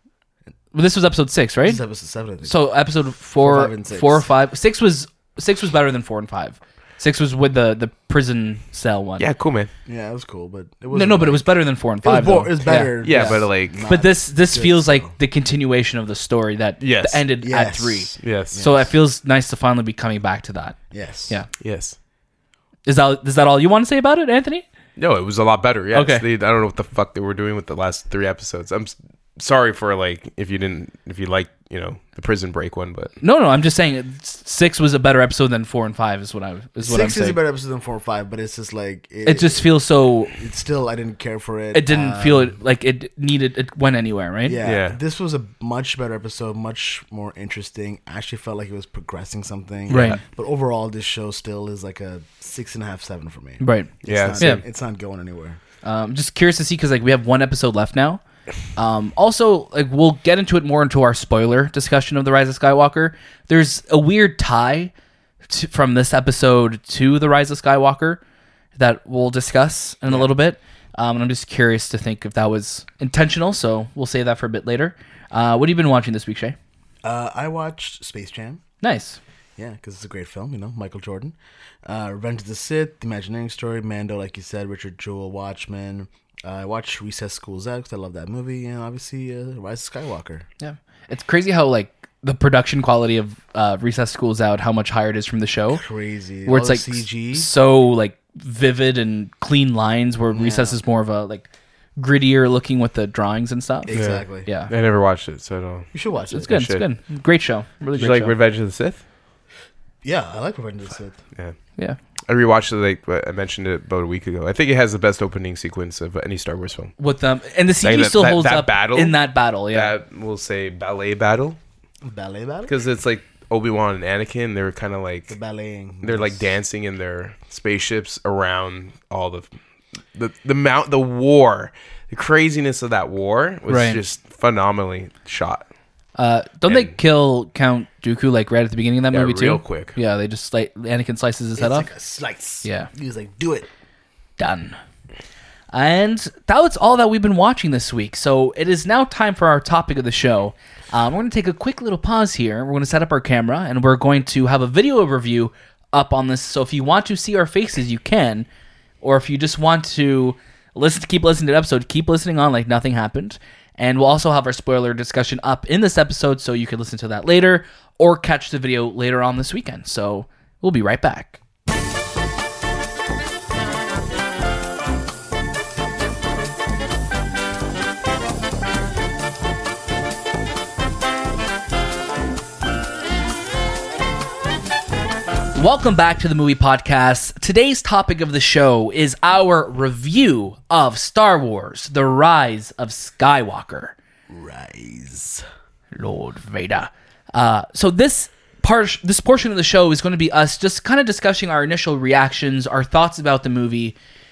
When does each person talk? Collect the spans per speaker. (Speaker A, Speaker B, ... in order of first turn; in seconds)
Speaker A: 0.7-1.8, 2.4-9.3, 10.9-21.5, 22.9-24.6, 25.9-26.2, 33.2-37.4, 39.2-40.4, 41.7-44.6, 49.9-50.2, 53.6-54.6, 55.8-58.2, 58.8-64.9, 65.5-68.2, 68.8-76.6, 78.8-79.2, 90.6-95.8, 96.5-104.7, 106.3-108.3, 117.0-119.9, 133.7-134.0, 136.2-141.9, 142.6-142.9, 144.4-144.8, 145.7-158.5, 159.0-171.4, 185.5-193.9, 195.9-203.9
Speaker B: 1.6-2.6, 3.4-4.3, 9.9-11.5, 12.0-15.2, 17.4-18.9, 20.9-21.4, 36.8-39.7, 40.3-42.6, 44.4-55.6, 77.0-78.6, 79.6-90.5, 95.7-97.5, 100.3-100.8, 103.8-104.5, 105.9-106.5, 110.0-111.2, 122.0-122.7, 125.3-126.6, 141.6-143.7, 194.3-195.4
Speaker C: 9.2-9.7, 13.0-13.8, 16.8-17.2, 18.2-18.6, 21.6-22.0, 25.0-33.1, 44.6-45.0, 49.9-50.2, 54.0-54.6, 103.9-105.9, 106.5-106.8, 108.0-109.0, 112.3-117.0, 117.8-119.2, 119.7-121.6, 122.7-125.3, 126.0-129.5, 130.2-135.7, 136.7-136.9, 139.1-140.0